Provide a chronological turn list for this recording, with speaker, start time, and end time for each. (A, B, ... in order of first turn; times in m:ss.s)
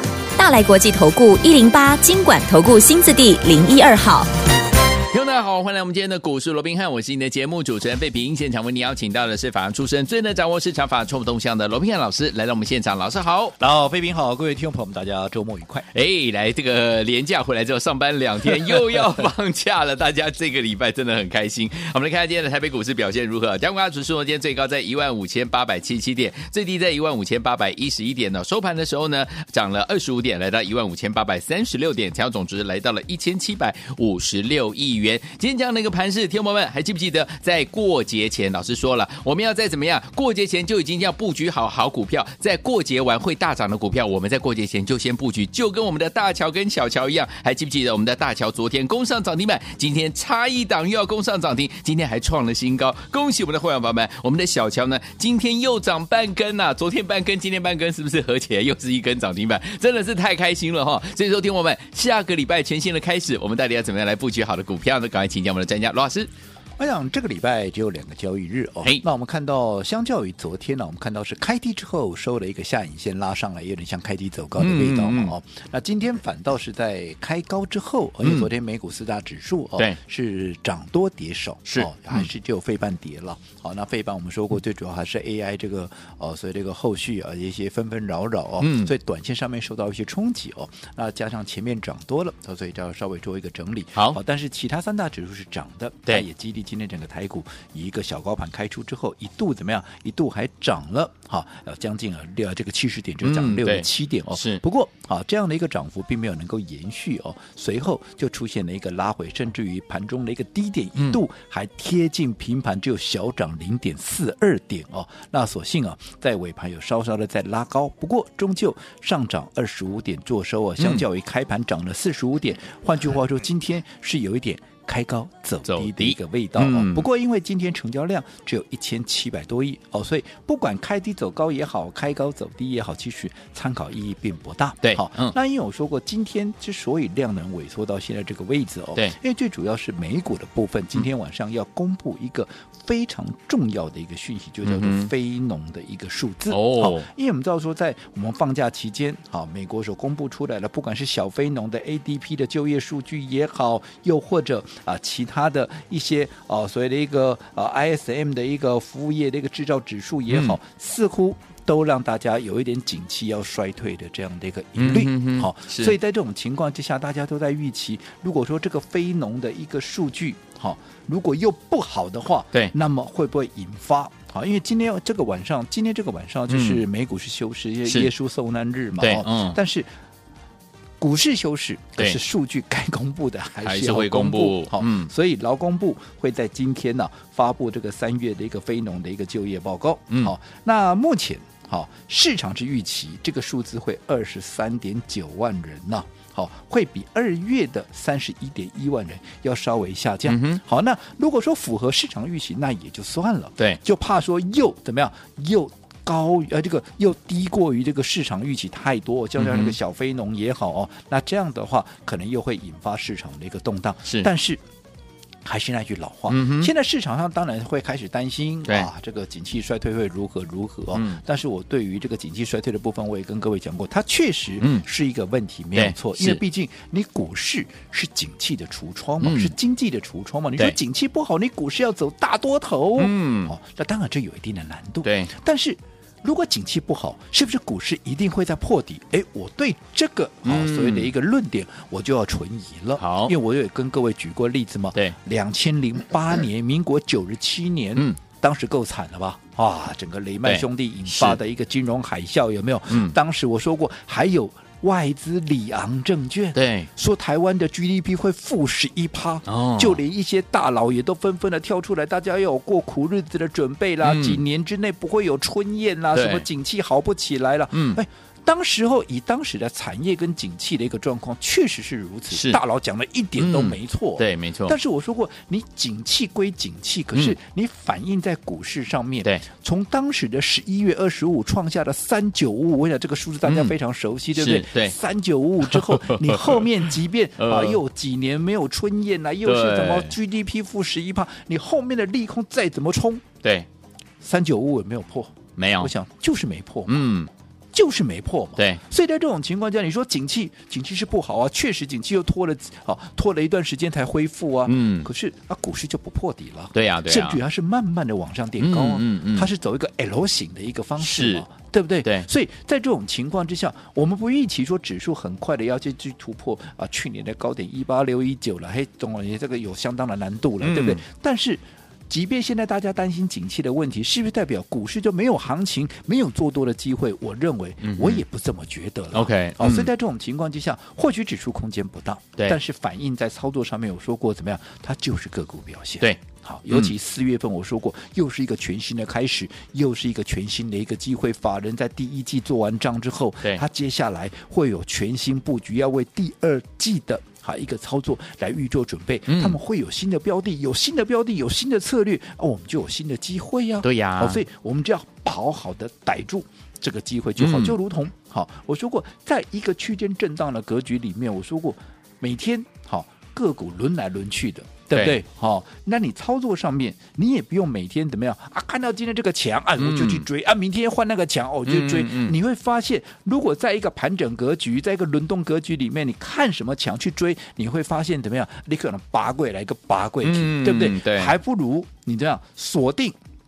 0:00.4-0:04.3 A
0:05.1-0:13.6 B
0:13.6-0:15.9 C
0:15.9-1:06.3 B
1:06.8-2:59.9 C
1:14.6-1:15.4 B
1:18.2-1:18.5 B
1:21.7-1:22.2 B
1:28.6-1:28.9 B
1:43.2-1:44.6 B
2:00.8-2:01.1 B
2:05.6-2:07.0 B
2:14.8-2:15.3 B
2:24.6-2:25.1 B
2:26.5-2:27.1 B
2:40.3-2:40.6 B
2:44.8-2:46.0 B
2:56.5-2:56.8 B
2:57.8-2:58.1 B
2:59.0-2:59.6 B
3:01.0-3:34.6 C
3:03.6-3:05.1 B
3:20.3-3:20.6 B
3:29.4-3:29.8 B
3:35.4-4:53.3 C
3:36.3-3:36.7 B
3:40.9-3:41.2 B
3:44.6-3:44.9 B
3:45.8-3:46.4 B
3:49.2-3:49.6 B
3:53.0-3:53.6 B
3:55.0-3:55.3 B
4:00.4-4:01.1 B
4:03.0-4:03.4 B
4:10.4-4:11.4 B
4:12.9-4:13.2 B
4:16.6-4:16.9 B
4:19.5-4:20.0 B
4:24.0-4:24.4 B
4:26.1-4:26.5 B
4:27.7-4:28.0 B
4:32.3-4:32.6 B
4:33.4-4:34.8 B
4:43.4-4:43.8 B
4:44.4-4:45.0 B
4:45.6-4:46.8 B
4:47.4-4:47.8 B
4:49.4-4:50.2 B
4:54.2-4:57.1 C
4:55.6-4:55.9 B
4:56.9-4:57.3 B
4:57.7-6:23.2 C
4:58.6-4:58.8 B
5:04.6-5:05.1 B
5:06.7-5:07.4 B
5:08.6-5:09.5 B
5:11.0-5:11.4 B
5:12.0-5:12.3 B
5:20.6-5:21.0 B
5:27.8-5:28.2 B
5:29.1-5:29.9 B
5:36.0-5:36.9 B
5:49.3-5:49.6 B
5:53.8-5:54.4 B
5:57.4-5:57.8 B
6:04.9-6:05.2 B
6:09.8-6:10.3 B
6:11.6-6:12.4 B
6:20.2-6:21.4 B